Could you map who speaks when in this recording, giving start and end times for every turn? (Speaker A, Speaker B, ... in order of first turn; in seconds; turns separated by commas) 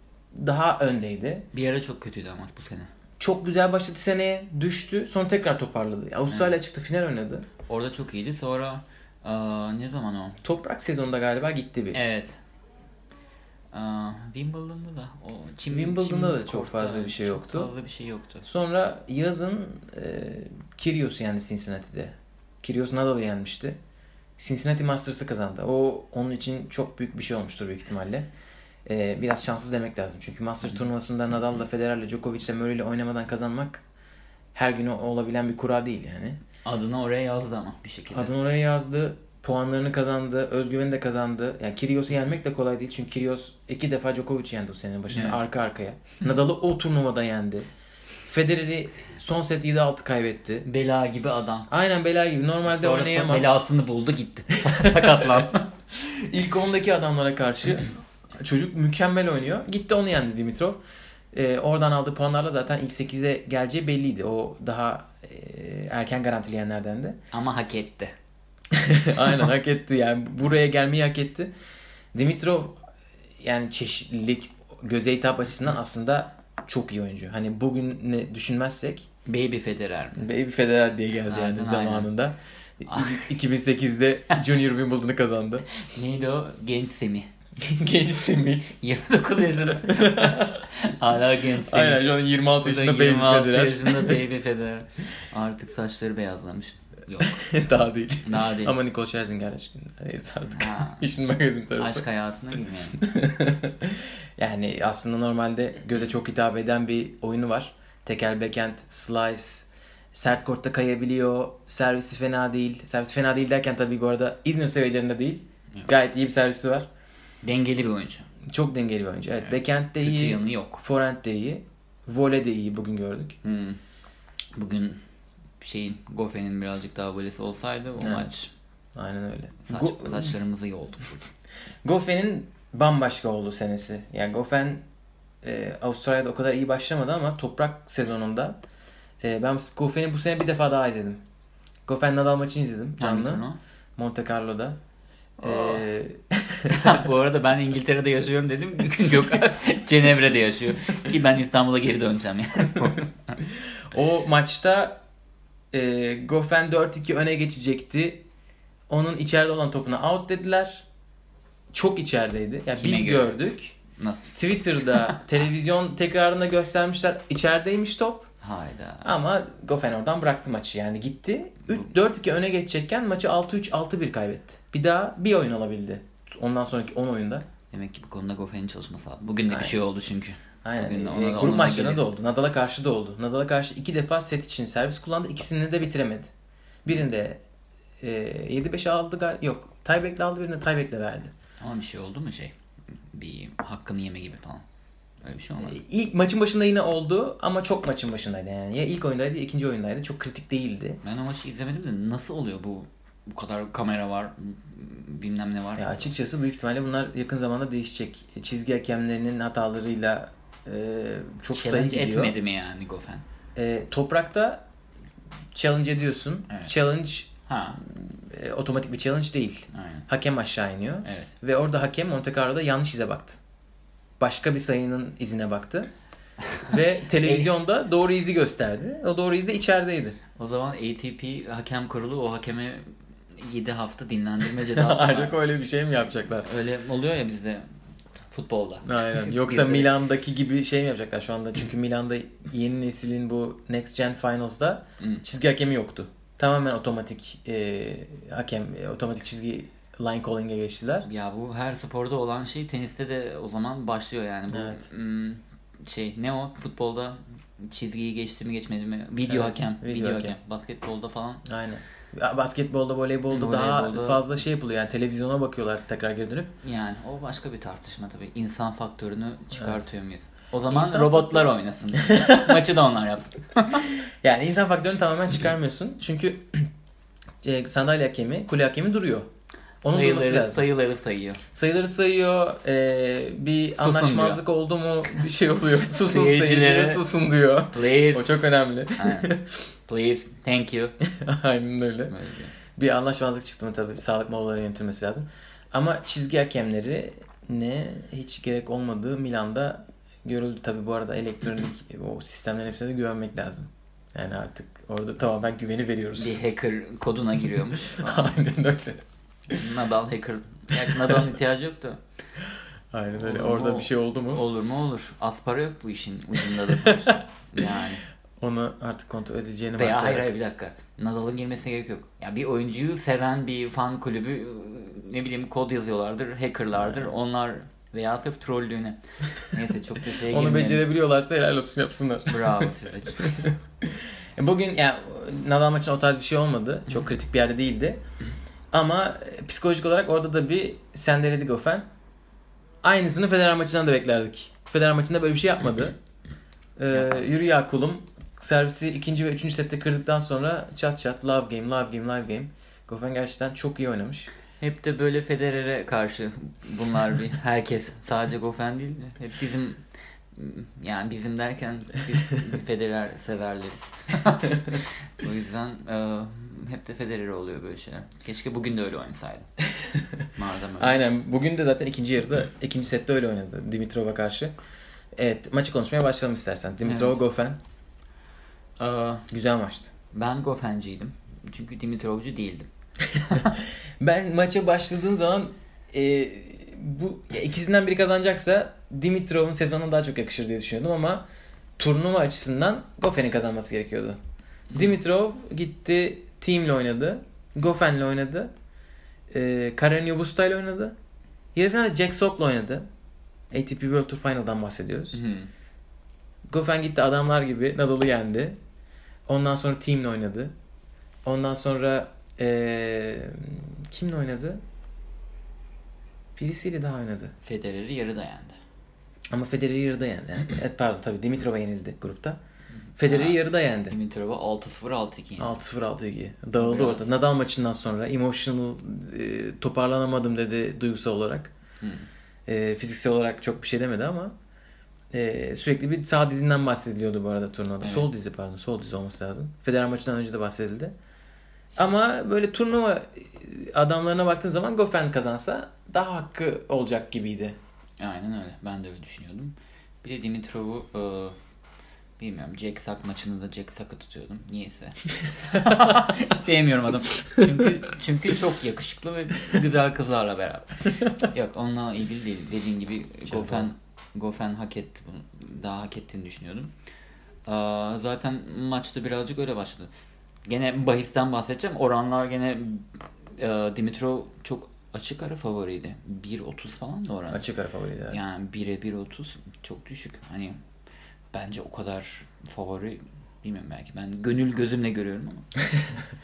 Speaker A: 0.3-1.5, Speaker B: 1.5-2.9, Speaker A: 3.2-7.5, Speaker B: 6.3-6.6, Speaker B: 7.7-10.4, Speaker A: 10.4-12.0, Speaker B: 11.9-12.4, Speaker B: 13.7-18.4, Speaker A: 15.7-17.7, Speaker A: 18.4-23.8, Speaker A: 24.4-28.3, Speaker A: 28.9-33.8, Speaker A: 34.5-36.4, Speaker B: 36.6-38.3, Speaker A: 38.1-47.7, Speaker B: 45.1-45.4, Speaker A: 48.3-50.7, Speaker B: 50.7-51.7, Speaker A: 51.7-53.7, Speaker B: 52.7-55.7, Speaker A: 54.6-60.8, Speaker A: 61.3-67.2, Speaker B: 67.3-68.1, Speaker A: 68.7-71.5, Speaker A: 72.1-72.8, Speaker A: 73.4-79.1, Speaker B: 79.3-80.2, Speaker A: 80.2-85.7, Speaker B: 81.3-82.1, Speaker B: 82.9-83.3, Speaker B: 85.7-87.3, Speaker A: 87.6-88.8, Speaker B: 88.8-97.5, Speaker A: 89.6-90.7, Speaker A: 91.6-94.2, Speaker A: 97.2-102.0, Speaker B: 98.2-98.7, Speaker B: 100.5-101.0, Speaker B: 101.8-103.0, Speaker A: 103.0-116.9, Speaker B: 117.4-118.3, Speaker A: 118.5-123.4, Speaker B: 119.4-120.8, Speaker B: 123.4-123.8, Speaker B: 124.5-125.0, Speaker B: 125.6-128.5, Speaker A: 128.0-128.3, Speaker A: 128.9-130.4, Speaker B: 129.7-131.3, Speaker A: 131.8-134.8, Speaker A: 135.4-138.6, Speaker A: 139.2-141.2, Speaker A: 141.9-143.4, Speaker B: 143.0-143.6, Speaker A: 144.0-144.8, Speaker B: 145.4-145.8, Speaker A: 145.4-147.0, Speaker B: 146.7-153.4, Speaker A: 153.5-155.0, Speaker A: 155.7-158.2, Speaker A: 158.9-160.9, Speaker A: 161.7-163.8, Speaker B: 162.8-163.4, Speaker B: 163.9-165.2, Speaker A: 164.3-168.3, Speaker B: 168.4-169.1, Speaker A: 169.0-177.5, Speaker B: 177.7-182.1, Speaker A: 179.5-179.8, Speaker A: 180.6-186.3, Speaker A: 186.8-187.4, Speaker A: 188.0-191.3, Speaker B: 191.6-194.6, Speaker B: 195.2-195.8, Speaker A: 195.6-201.0, Speaker B: 201.0-206.1, Speaker A: 205.8-212.3, Speaker B: 211.5-213.2, Speaker A: 213.6-214.6, Speaker A: 215.5-223.4, Speaker B: 217.5-217.8, Speaker B: 219.7-220.1, Speaker B: 221.1-221.3, Speaker A: 224.2-225.9, Speaker B: 226.4-227.5, Speaker A: 226.6-230.2, Speaker B: 230.4-235.4, Speaker A: 234.7-236.5, Speaker B: 236.4-237.7, Speaker B: 238.3-239.9, Speaker A: 238.8-251.1, Speaker B: 251.0-261.4, Speaker A: 254.5-254.9, Speaker A: 259.3-260.4, Speaker A: 261.4-266.5, Speaker B: 263.3-264.2, Speaker B: 266.6-273.9, Speaker A: 269.5-269.9, Speaker A: 270.7-272.6, Speaker A: 274.2-276.7, Speaker A: 277.4-279.3, Speaker A: 279.8-280.7, Speaker B: 279.9-281.4, Speaker A: 281.5-289.5, Speaker B: 283.8-284.4, Speaker B: 286.0-287.0, Speaker B: 287.7-288.4, Speaker B: 289.0-289.3, Speaker B: 289.9-291.0, Speaker A: 291.0-292.1, Speaker B: 292.1-292.6, Speaker A: 292.8-306.4, Speaker B: 306.2-308.3, Speaker A: 307.9-309.7, Speaker B: 309.6-312.0, Speaker A: 310.7-311.3, Speaker A: 312.9-314.4, Speaker B: 313.1-318.0, Speaker A: 316.4-317.8, Speaker A: 318.4-320.3, Speaker B: 319.8-330.9, Speaker A: 330.2-338.0, Speaker B: 332.3-333.4, Speaker A: 338.7-341.9, Speaker A: 342.8-346.0, Speaker A: 346.8-354.3, Speaker B: 346.9-347.3, Speaker B: 354.6-369.5, Speaker B: 370.4-371.0, Speaker A: 370.8-374.5, Speaker A: 375.2-377.6, Speaker B: 376.9-377.2, Speaker B: 378.8-379.3, Speaker A: 379.3-379.9, Speaker B: 380.1-382.7, Speaker A: 383.1-391.2, Speaker B: 383.3-383.6, Speaker A: 391.8-394.2, Speaker A: 394.7-398.5, Speaker A: 399.3-401.0, Speaker A: 401.6-402.9, Speaker A: 403.5-405.2, Speaker B: 405.1-405.5, Speaker A: 406.5-408.6, Speaker A: 409.3-410.5, Speaker A: 411.2-414.6, Speaker A: 416.4-417.3, Speaker B: 417.4-418.6, Speaker A: 419.3-422.4, Speaker A: 423.0-424.0, Speaker B: 423.0-425.6, Speaker A: 425.4-431.5, Speaker B: 426.6-427.1, Speaker B: 431.8-432.1, Speaker A: 432.5-434.3, Speaker A: 435.1-440.9, Speaker B: 437.8-438.1, Speaker A: 441.8-447.6, Speaker B: 448.0-451.4, Speaker B: 452.2-466.7, Speaker A: 463.3-463.7, Speaker B: 467.5-469.9, Speaker B: 470.4-477.4, Speaker A: 477.3-478.2, Speaker B: 478.1-480.6, Speaker B: 481.3-485.5